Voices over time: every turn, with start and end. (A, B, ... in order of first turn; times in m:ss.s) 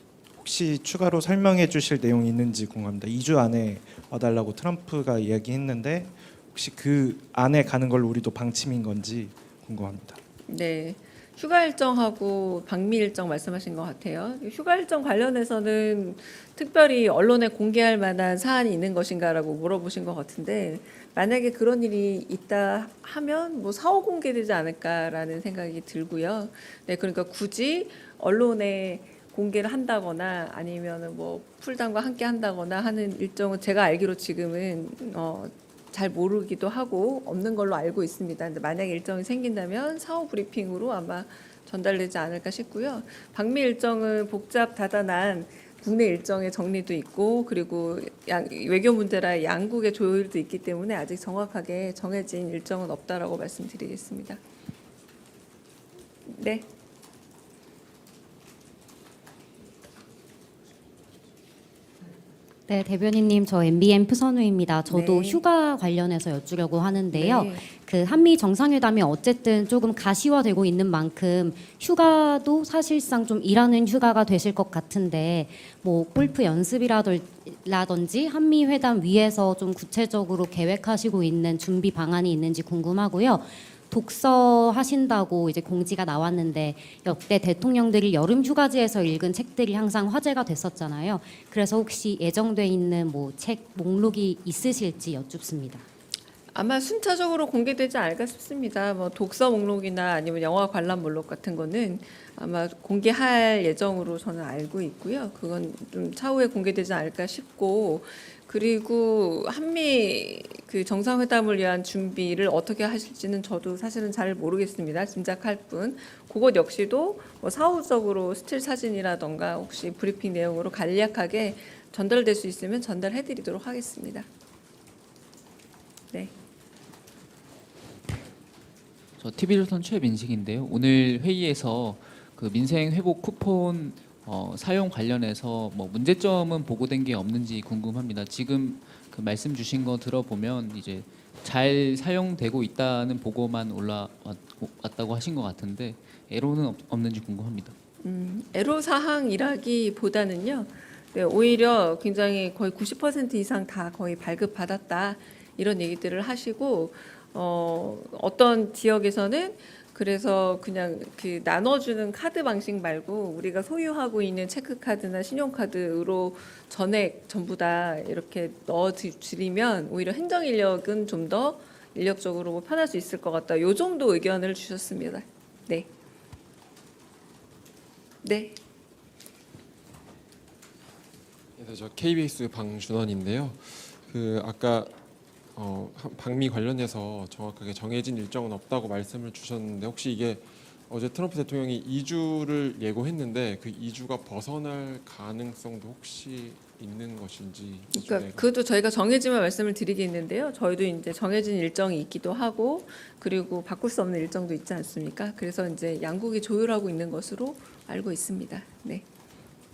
0:00.3-0:10.2 A
0:10.5-0:54.4 B
0:56.3-0:56.6 B
1:02.7-1:35.8 C
1:04.9-1:05.4 B
1:07.1-1:07.6 B
1:36.5-2:04.2 B
2:09.2-2:27.7 D
2:28.0-2:55.9 B
2:58.2-2:58.6 B
3:01.6-3:04.9 E
3:05.5-3:18.5 E
3:17.9-3:29.0 B